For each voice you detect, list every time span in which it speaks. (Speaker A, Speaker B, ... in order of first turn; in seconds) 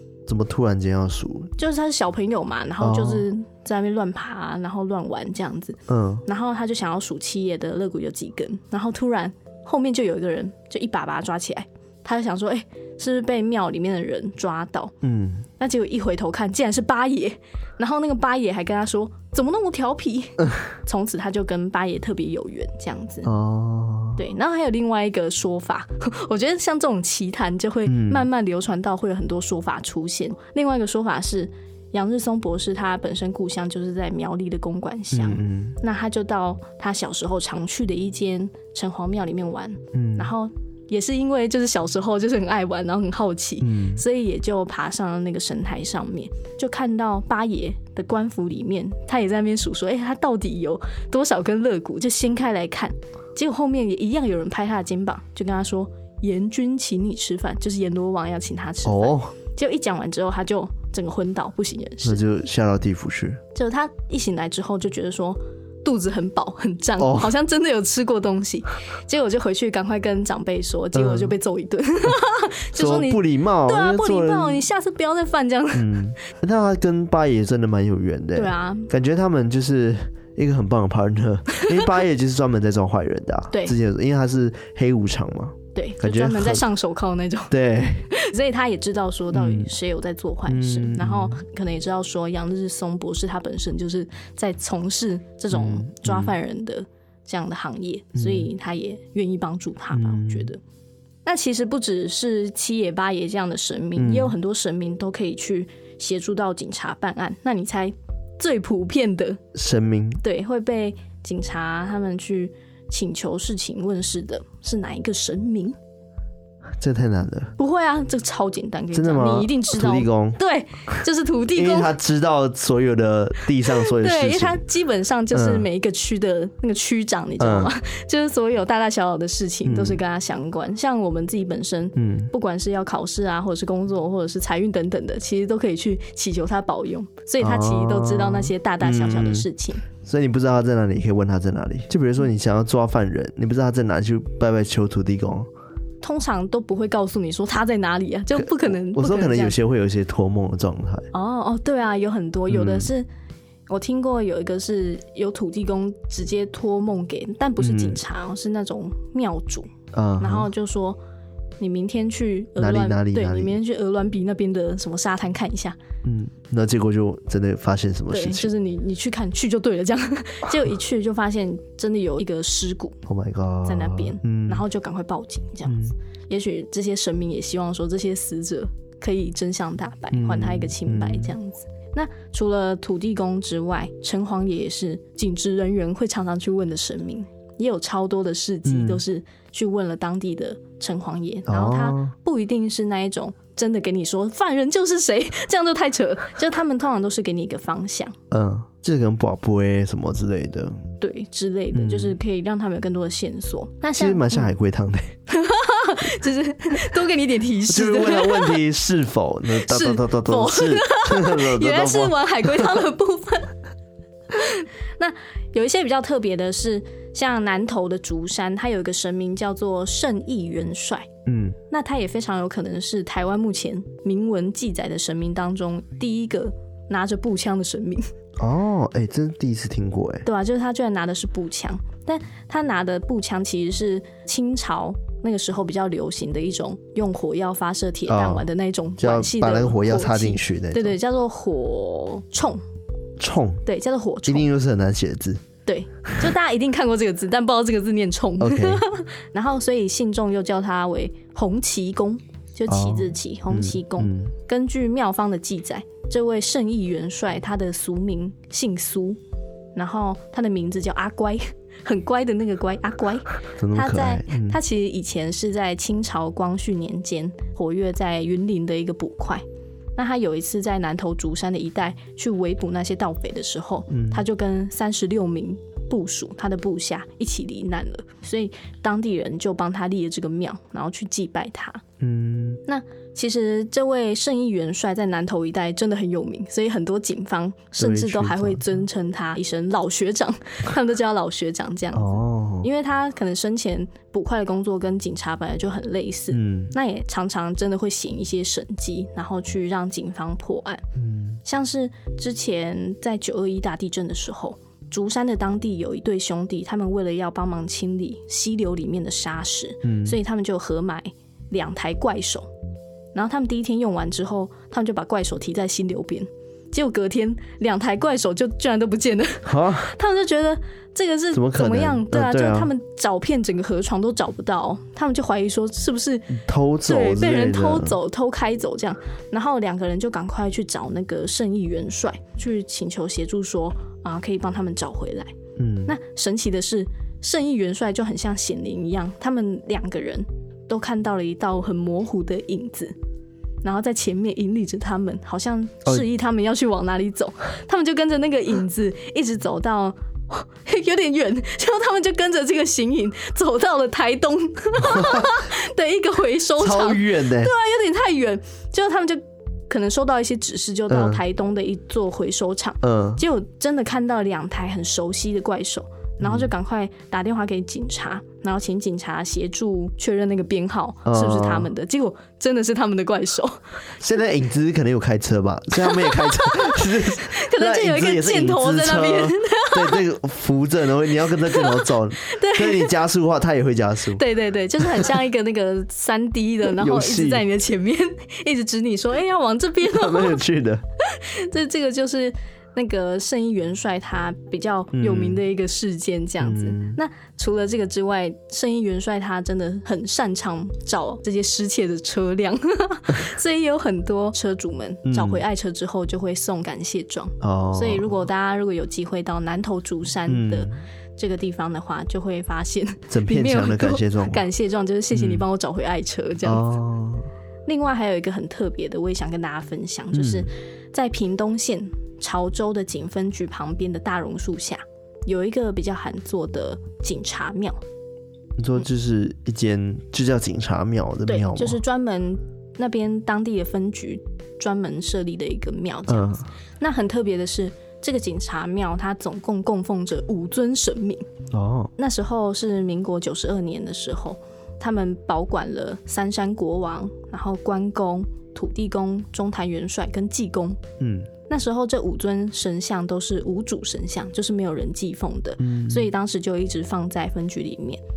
Speaker A: 0.2-1.5, 2.8-3.2, 5.9-6.2, 15.0-15.5, 23.2-24.2, 27.9-28.3, 35.1-35.8, 39.9-40.3, 43.6-44.0, 58.8-59.3, 62.0-63.4, 67.0-67.3, 70.9-71.3, 72.7-74.6, 75.7-86.6, 87.5-88.1, 89.3-89.7, 90.5-91.4, 95.5-96.3, 98.1-98.5, 99.9-100.5, 104.0-104.3, 109.5-110.2, 116.8-117.5, 118.9-120.4, 121.5-124.6, 125.3-125.7, 127.4-127.7, 129.6-130.0, 131.9-132.3, 137.4-145.5, 148.3-151.1, 152.5-152.9, 157.6-158.0, 159.9-160.5, 162.6-163.6, 166.0-168.5, 173.1-174.7, 175.7-175.9, 180.1-181.3, 188.7-189.0, 191.5-192.1, 198.3-200.8, 201.7-202.2, 203.9-205.1, 207.7-212.8, 221.2-221.6, 228.4-230.2, 238.1-241.0, 243.2-243.6, 244.2-245.4, 248.4-248.8, 252.7-254.3, 263.6-264.6, 273.9-274.2, 282.0-282.6, 287.8-288.7, 291.9-292.7, 296.3-296.7, 300.9-301.4, 309.8-310.2, 319.4-319.9, 321.3-322.7, 326.3-328.0, 335.6-335.9, 354.8-355.3, 356.6-357.5, 360.9-361.2, 362.8-363.2, 366.2-366.5, 371.0-371.7, 374.0-384.2, 384.8-385.2, 386.6-387.5, 389.8-390.8, 394.9-395.4, 396.4-397.0, 405.1-405.4, 407.4-408.1, 410.3-410.7, 413.1-414.4, 415.1-415.4, 416.4-417.3, 420.1-420.5, 428.6-431.8, 436.1-436.4, 441.5-441.9, 451.0-451.3, 455.6-456.1
Speaker B: 1.6-14.9, 15.6-23.3, 24.1-62.2, 63.5-76.0, 78.3-78.9, 83.5-83.8, 85.7-100.6, 101.2-109.4, 110.2-115.8, 117.6-121.9, 123.7-139.8, 146.0-149.6, 151.1-153.1, 153.7-161.0, 161.6-165.8, 168.1-173.0, 173.6-198.2, 201.0-204.5, 205.3-208.6, 209.6-213.5, 214.3-221.1, 221.7-228.1, 230.2-242.6, 243.6-244.5, 245.7-259.2, 259.8-269.4, 269.9-281.8, 282.6-300.8, 301.4-312.5, 313.1-335.3, 335.9-342.9, 343.6-373.6, 375.8-380.0, 381.5-382.9, 384.1-390.4, 391.0-416.6, 417.6-427.8, 431.3-441.3, 442.0-450.8, 451.5-458.0